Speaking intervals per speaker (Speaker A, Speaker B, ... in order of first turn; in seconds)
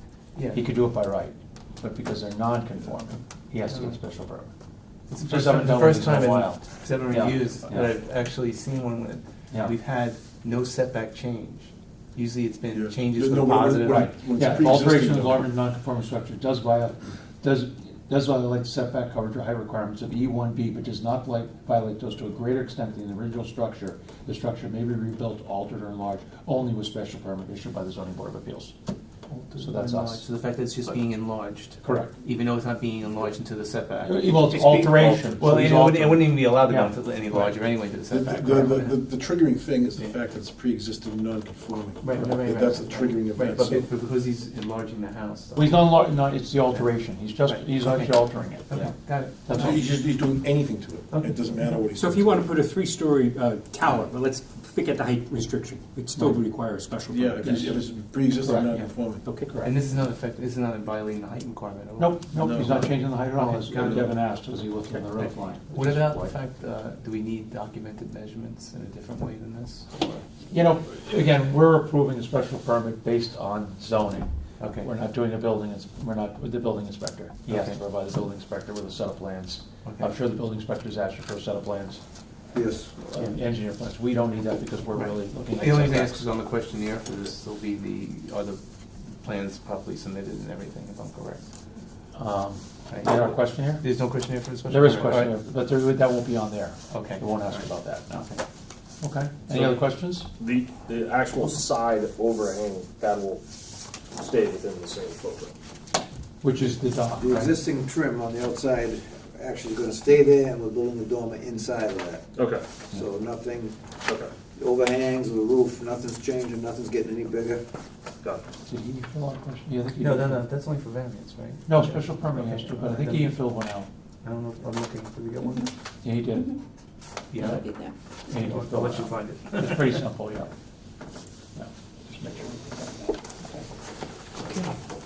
Speaker A: 0.3-0.6, 3.7-4.0, 5.1-14.5, 29.3-39.0, 42.0-46.1, 46.7-49.8, 59.6-62.2, 63.3-64.2, 65.2-70.2, 74.6-74.9, 77.4-77.8, 79.8-80.1, 84.9-88.6, 89.1-91.5, 92.9-95.3, 96.9-98.4, 120.0-123.5, 124.2-125.7, 127.3-127.7, 128.3-130.0
Speaker B: 0.5-4.5, 5.2-7.9, 13.8-28.7, 29.6-30.2, 31.8-32.1, 34.0-37.6, 45.5-49.9, 58.4-58.9, 62.0-66.3, 70.5-82.0, 83.0-86.2, 92.1-93.9, 94.7-98.3, 99.0-100.3, 106.4-107.6, 118.7-120.5, 121.7-123.9, 126.0-126.6, 127.4-130.5, 131.5-133.7
Speaker C: 12.7-15.4, 38.1-43.9, 49.5-52.5, 57.1-59.3, 62.3-62.9, 63.7-64.2
Speaker D: 51.9-57.8, 59.2-59.7
Speaker E: 82.5-82.9, 107.2-112.2, 112.9-113.8, 114.5-117.6
Speaker F: 99.5-99.8, 100.4-103.4, 104.1-105.5, 112.3-112.6, 114.0-114.3, 127.6-127.9